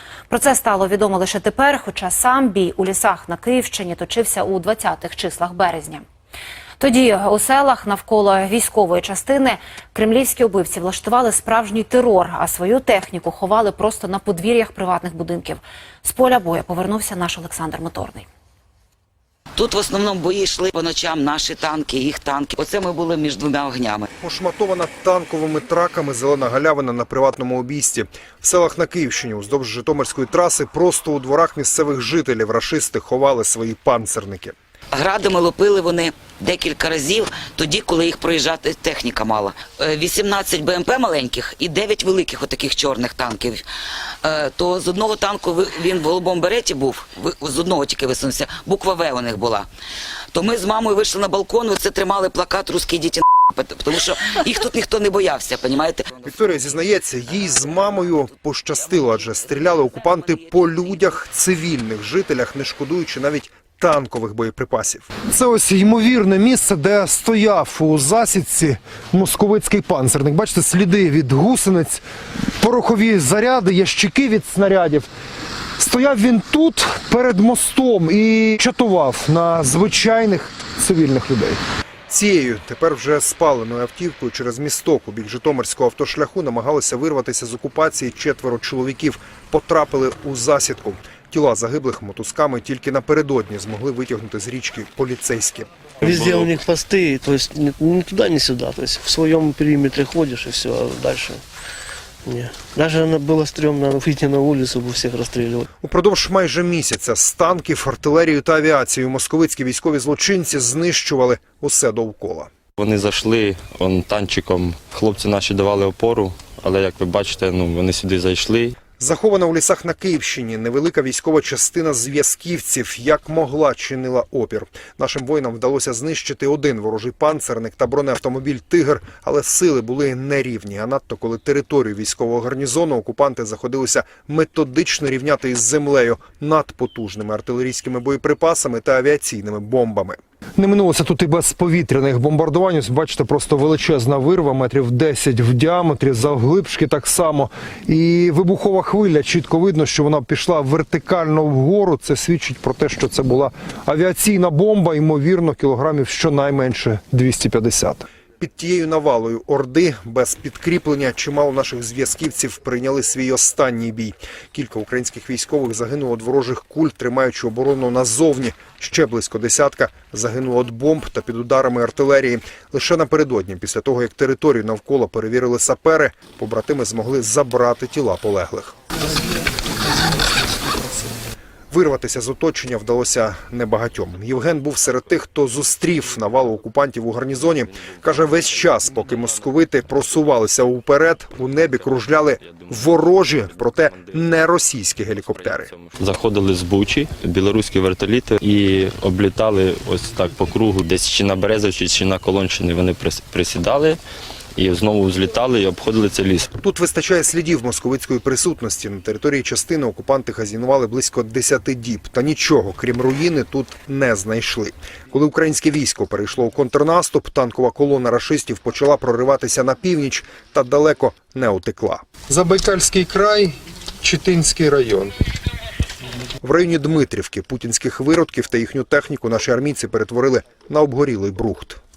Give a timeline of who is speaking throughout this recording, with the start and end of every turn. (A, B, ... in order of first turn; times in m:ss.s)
0:00.3-0:06.0 A
0:06.8-0:18.3 A
0:19.6-0:24.1 B
0:24.2-0:34.6 C
0:34.9-0:43.6 B
0:44.2-0:49.7 B
0:50.3-0:56.2 B
0:56.2-1:12.0 C
1:12.6-1:15.1 C
1:15.8-1:35.7 C
1:36.0-1:41.4 D
1:36.1-1:36.4 E
1:42.2-1:45.7 D
1:45.8-1:52.5 C
1:52.8-1:58.8 E
1:59.0-2:58.8 C
3:01.7-3:15.7 C
3:07.8-3:09.5 E
3:11.5-3:14.3 E
3:15.2-3:24.0 E
3:24.6-3:26.5 E
3:26.6-3:45.1 C
3:46.4-3:51.8 C